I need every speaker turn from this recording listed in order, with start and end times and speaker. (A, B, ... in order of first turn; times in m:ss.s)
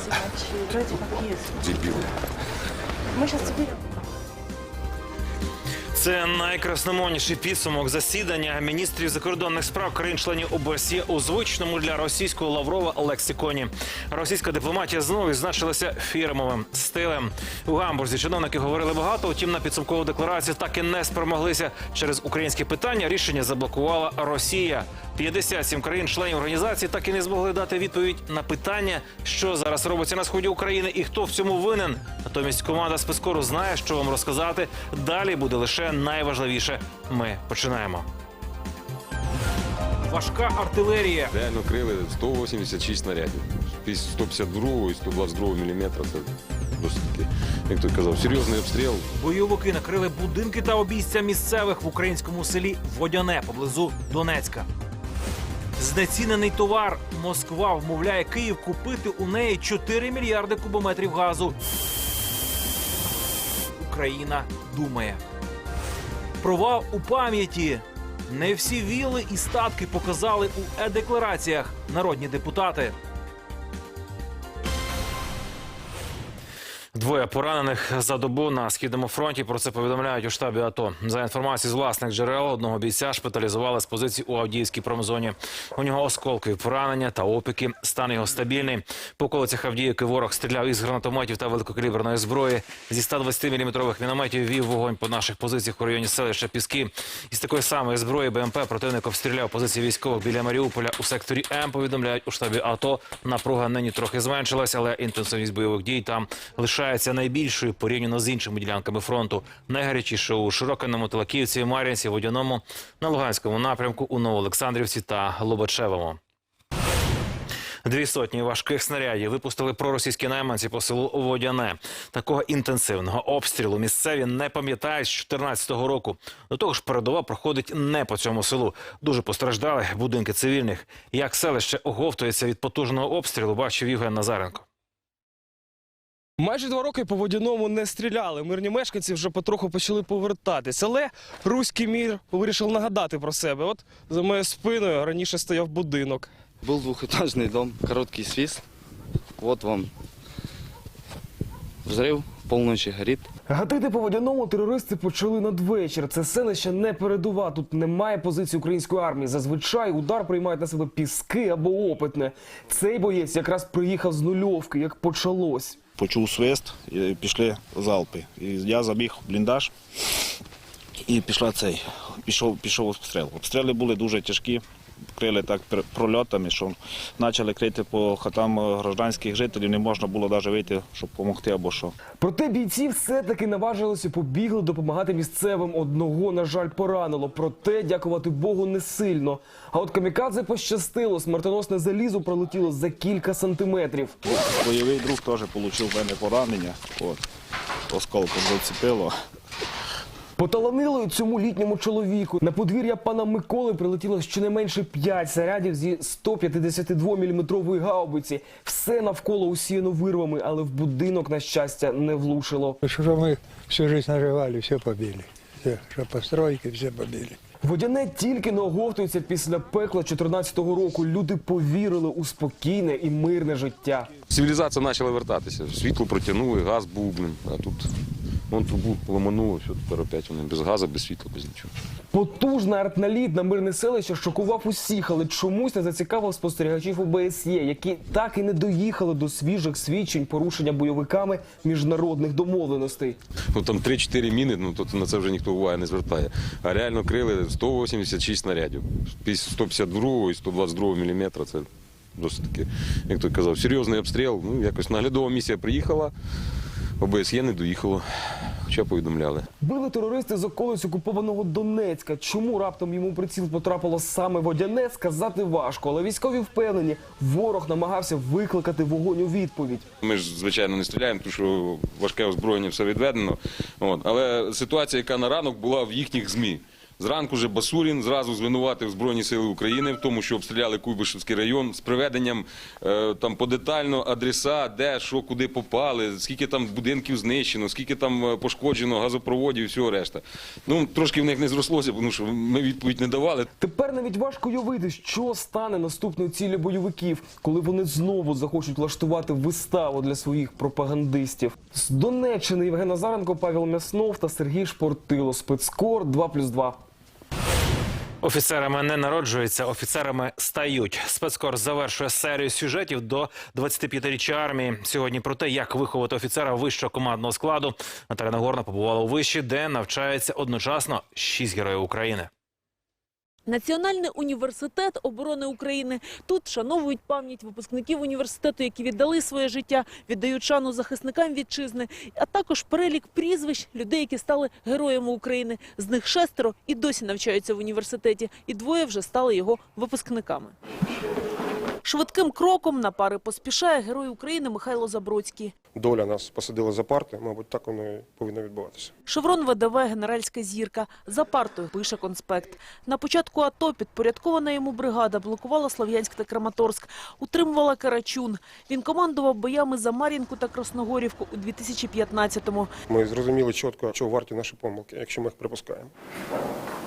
0:00.1-0:01.3 A
0:03.2-0:03.7 A
0:05.9-0:38.1 B
0:40.0-0:41.3 B
0:41.3-0:49.1 C
0:49.1-0:54.6 B
0:55.8-1:01.5 B
1:03.8-1:05.2 B
1:06.4-1:12.9 B
1:16.9-1:56.2 B
1:57.8-2:14.6 B
2:16.4-2:26.3 D
2:26.6-2:28.6 E
2:29.4-2:29.9 E
2:31.8-2:33.2 E
2:33.5-2:45.8 D
2:46.0-2:49.7 F
2:51.1-2:54.6 F
2:55.2-3:01.9 F
3:02.2-3:14.2 D
3:14.3-3:17.2 F
3:17.9-3:19.1 F
3:20.4-3:32.8 D
3:32.8-3:37.4 A
3:37.6-3:44.1 D
3:44.3-3:47.9 C
3:48.5-3:51.7 C
3:52.1-4:03.2 D
4:03.5-4:16.1 C
4:17.0-4:18.1 C
4:18.6-4:19.5 C
4:19.6-4:29.8 D
4:30.0-4:53.5 C
4:53.6-5:06.8 D
5:08.2-5:22.3 B
5:23.5-5:40.5 G
5:41.8-5:45.5 G
5:45.7-5:48.9 H
5:49.1-6:02.7 G
6:02.9-6:05.9 H